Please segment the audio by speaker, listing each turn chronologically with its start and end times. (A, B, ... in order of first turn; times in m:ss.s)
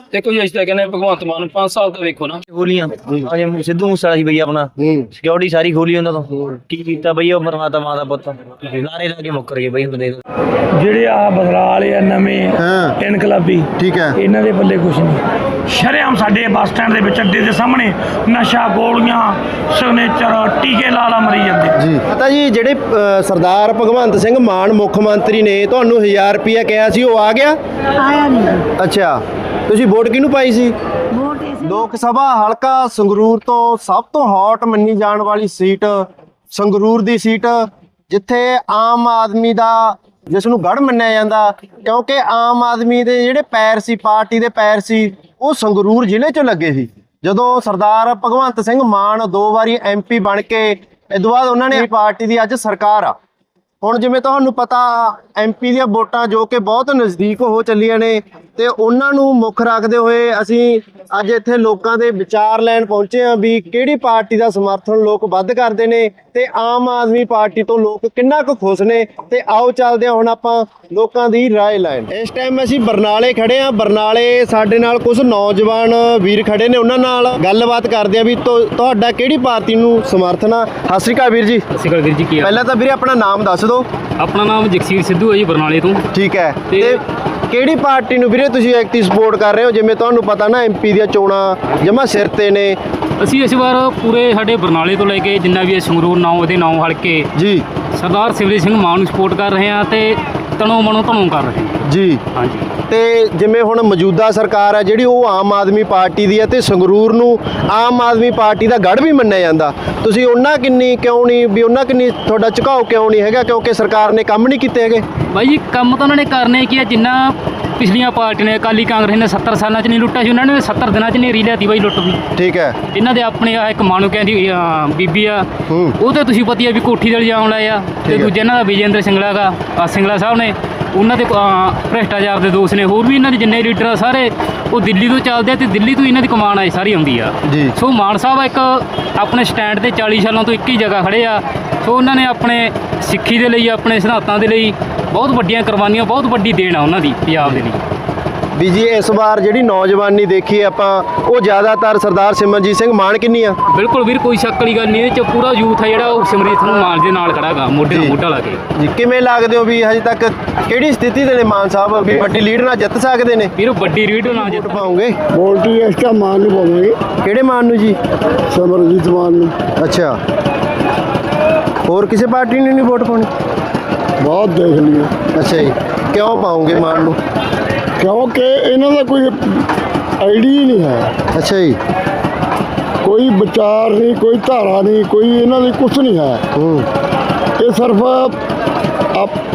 0:00.2-0:02.3 A
0:02.5-0:10.2 B
0:04.8-0:05.1 C
0:10.8-0:21.8 D
0:12.6-0:12.9 C
0:13.8-0:14.2 C
0:21.8-0:27.6 C
0:28.8-0:30.7 C
0:31.5-0:53.2 C
0:53.8-1:21.6 C
1:21.7-1:22.7 E
1:22.4-1:23.9 C
1:24.2-1:26.0 E
1:26.1-1:32.8 C
1:26.7-1:27.0 E
1:33.2-1:37.3 E
1:37.4-1:37.6 C
1:37.9-1:42.7 E
1:41.9-1:42.2 C
1:42.9-1:55.0 C
1:55.3-2:02.2 E
2:02.4-2:02.8 C
2:02.9-2:05.5 E
2:05.7-2:06.0 C
2:06.0-2:27.8 E
2:08.0-2:08.3 C
2:28.6-2:33.6 C
2:33.7-2:38.6 E
2:37.9-2:38.2 C
2:38.8-2:43.5 C
2:43.6-2:44.9 E
2:44.4-2:45.2 C
2:45.3-2:47.0 F
2:47.2-2:48.0 C
2:48.5-2:49.6 F
2:49.8-2:50.2 C
2:51.9-2:53.3 C
2:54.2-2:55.1 F
2:55.3-2:57.2 C
2:58.0-2:59.7 F
3:00.2-3:01.1 F
3:01.3-3:01.8 C
3:03.0-3:06.4 F
3:06.6-3:06.9 C
3:07.6-3:08.4 F
3:09.1-3:09.4 F